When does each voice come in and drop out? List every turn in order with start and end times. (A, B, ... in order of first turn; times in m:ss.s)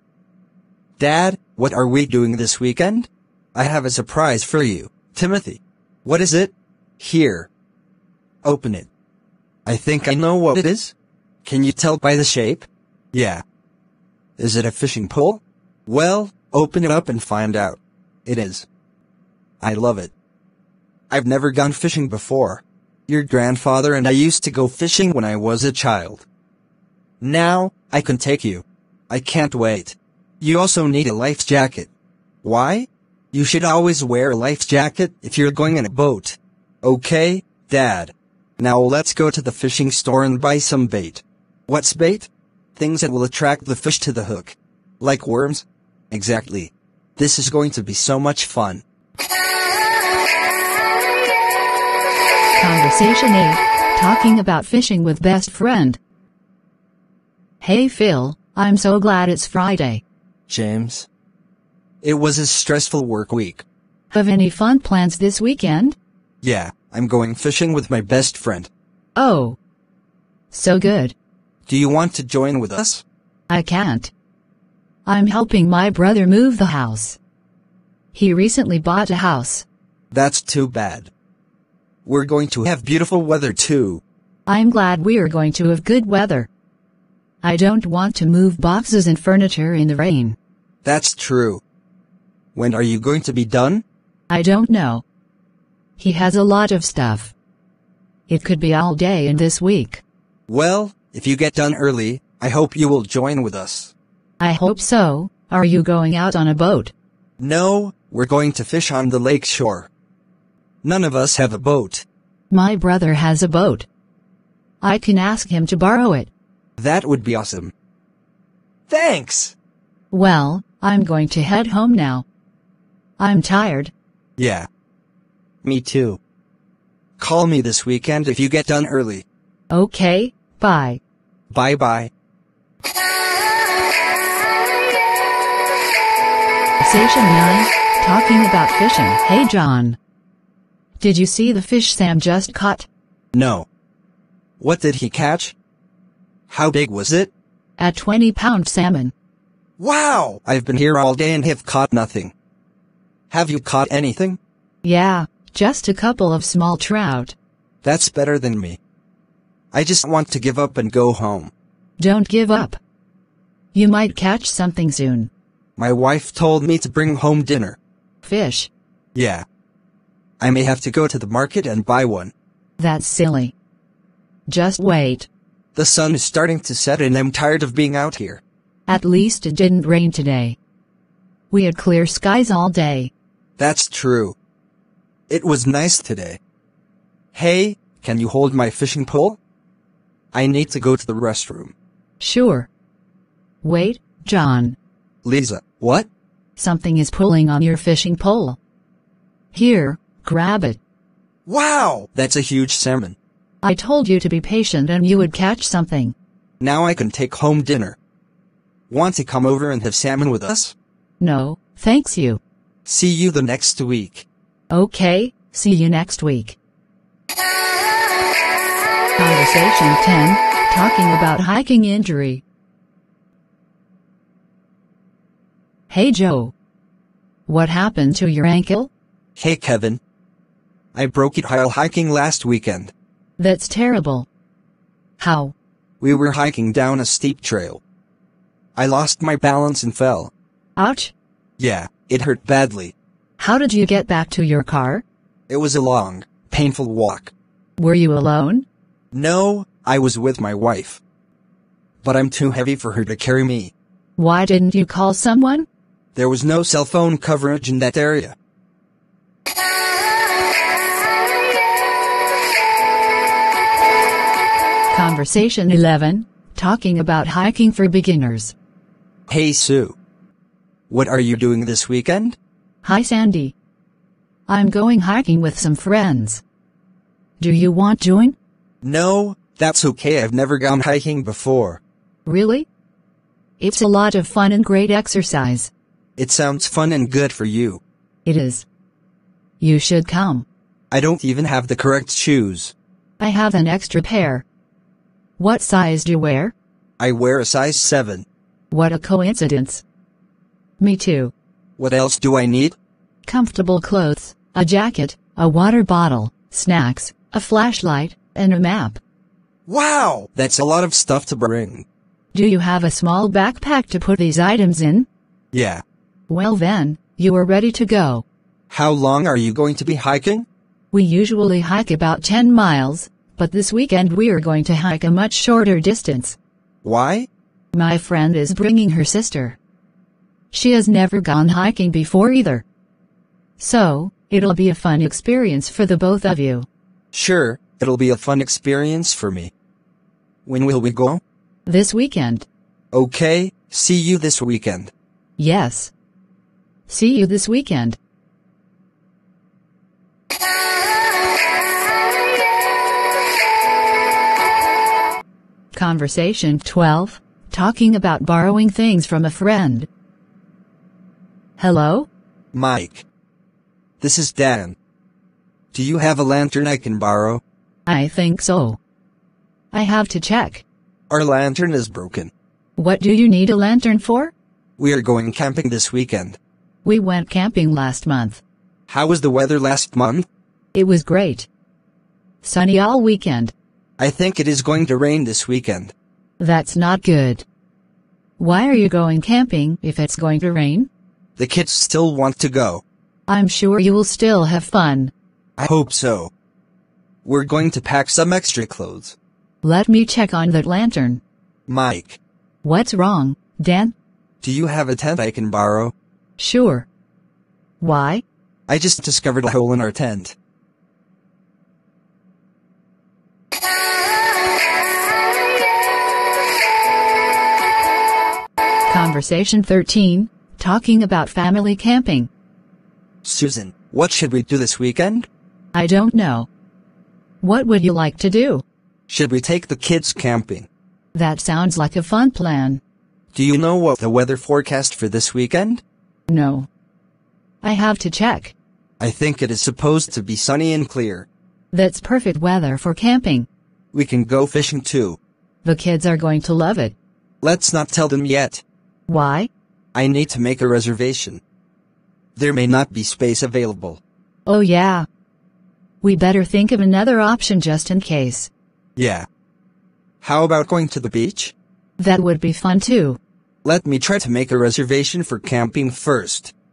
0:01.0-0:07.5 A
0:08.4-0:08.9 A
0:09.6-0:10.9 A
0:11.4-0:13.4 A
0:14.4-0:18.7 A
0:19.6-0:20.1 A
0:21.1-0:26.2 A
0:27.2-0:31.9 A
0:32.4-0:48.8 A
0:52.6-0:56.0 B
0:57.6-1:00.0 B
1:00.5-1:01.1 A
1:02.0-1:03.6 A
1:04.1-1:06.0 B
1:06.4-1:08.7 A
1:09.2-1:09.6 B
1:10.5-1:11.1 B
1:11.7-1:13.0 A
1:13.5-1:14.1 B
1:15.0-1:17.2 B
1:18.1-1:19.6 B
1:20.1-1:21.1 A
1:22.0-1:24.0 A
1:24.5-1:26.5 B
1:27.4-1:30.4 B
1:30.8-1:31.6 A
1:32.5-1:33.8 A
1:34.3-1:35.0 B
1:36.0-1:37.3 B
1:38.3-1:40.0 B
1:40.5-1:43.9 A
1:44.4-1:46.9 B
1:47.4-1:49.9 A
1:50.8-1:52.0 A
1:52.5-1:53.9 B
1:54.8-1:56.3 B
1:56.8-1:57.7 A
1:58.9-1:59.5 A
2:00.1-2:02.2 B
2:03.2-2:03.9 B
2:04.4-2:04.7 A
2:05.6-2:06.2 A
2:07.2-2:09.2 A
2:09.7-2:11.0 B
2:11.5-2:12.1 A
2:16.8-2:20.0 B
2:21.0-2:22.9 B
2:23.3-2:23.6 A
2:24.6-2:25.5 A
2:26.5-2:27.3 A
2:27.8-2:29.1 B
2:29.8-2:32.3 A
2:33.3-2:34.4 A
2:34.8-2:37.3 B
2:37.8-2:38.8 A
2:39.7-2:41.5 A
2:42.0-2:42.8 B
2:43.7-2:45.3 B
2:45.8-2:47.8 A
2:48.2-2:48.7 B
2:49.1-2:49.4 A
2:50.4-2:52.3 A
2:52.8-2:53.5 B
2:54.5-2:55.3 B
2:55.7-2:58.4 A
2:58.9-3:00.6 B
3:01.5-3:03.1 B
3:03.6-3:04.4 A
3:05.3-3:06.4 A
3:07.3-3:09.4 A
3:10.3-3:11.7 A
3:12.2-3:12.7 B
3:13.6-3:14.8 B
3:15.2-3:16.1 A
3:16.6-3:18.6 B
3:19.5-3:20.8 B
3:21.4-3:23.2 A
3:23.6-3:26.1 B
3:26.6-3:28.0 A
3:28.9-3:30.7 A
3:31.2-3:32.4 B
3:32.8-3:34.2 A
3:34.7-3:36.6 B
3:39.2-3:42.4 B
3:45.9-3:46.5 B
3:47.5-3:48.9 B
3:49.4-3:50.0 A
3:50.9-3:52.9 A
3:53.4-3:54.3 B
3:55.2-3:55.5 B
3:56.0-3:57.8 A
3:58.8-4:00.3 A
4:00.8-4:01.1 B
4:01.6-4:02.9 A
4:03.4-4:05.0 B
4:05.5-4:07.3 A
4:07.8-4:08.6 B
4:09.1-4:11.0 A
4:12.0-4:13.7 A
4:14.2-4:15.7 B
4:16.1-4:18.4 A
4:24.9-4:28.5 B
4:29.3-4:30.0 A
4:30.9-4:32.4 A
4:32.8-4:33.5 B
4:34.5-4:36.4 B
4:37.4-4:38.4 B
4:38.8-4:41.8 A
4:42.2-4:42.7 B
4:43.6-4:45.7 B
4:46.2-4:47.8 A
4:48.2-4:48.6 B
4:49.6-4:50.4 B
4:50.9-4:52.7 A
4:53.2-4:54.4 B
4:55.4-4:56.5 B
4:57.0-4:58.2 A
4:58.7-4:59.8 B
5:00.8-5:01.3 B
5:01.8-5:02.8 A
5:03.2-5:09.0 B
5:09.7-5:11.8 A
5:12.3-5:15.1 B
5:15.5-5:15.8 A
5:16.3-5:18.2 B
5:18.7-5:20.5 A
5:20.9-5:26.4 B
5:26.8-5:27.3 A
5:27.7-5:29.6 B
5:30.5-5:32.6 B
5:33.6-5:36.7 B
5:37.1-5:39.5 A
5:40.4-5:41.2 A
5:41.6-5:42.4 B
5:42.9-5:44.9 A
5:45.4-5:45.9 B
5:46.9-5:48.0 B
5:55.7-5:59.9 B
6:01.6-6:02.1 B
6:02.5-6:03.0 A
6:04.0-6:04.8 A
6:05.7-6:07.4 A
6:07.8-6:08.8 B
6:09.7-6:10.6 B
6:11.1-6:12.3 A
6:12.8-6:14.3 B
6:14.8-6:16.4 A
6:16.8-6:18.4 B
6:18.9-6:20.3 A
6:20.7-6:21.5 B
6:22.4-6:23.5 B
6:24.0-6:25.9 A
6:26.4-6:27.4 B
6:28.4-6:30.9 B
6:31.4-6:32.8 A
6:33.3-6:35.1 B
6:35.6-6:36.3 A
6:37.2-6:39.2 A
6:39.6-6:41.2 B
6:41.7-6:42.2 A
6:42.6-6:43.9 B
6:44.4-6:45.9 A
6:46.4-6:46.8 B
6:47.8-6:48.2 B
6:48.7-6:50.4 A
6:58.9-7:02.3 B
7:03.2-7:05.3 A
7:05.7-7:06.5 B
7:07.4-7:08.6 B
7:09.1-7:10.7 A
7:11.1-7:12.8 B
7:13.3-7:15.8 A
7:16.3-7:16.7 B
7:17.6-7:18.5 B
7:19.0-7:21.3 A
7:21.7-7:23.5 B
7:23.9-7:25.2 A
7:25.6-7:26.9 B
7:27.4-7:28.6 A
7:29.1-7:29.5 B
7:29.9-7:31.4 A
7:32.4-7:34.0 A
7:34.5-7:35.0 B
7:36.0-7:38.5 B
7:39.0-7:39.3 A
7:40.2-7:41.5 A
7:42.0-7:43.2 B
7:43.6-7:46.5 A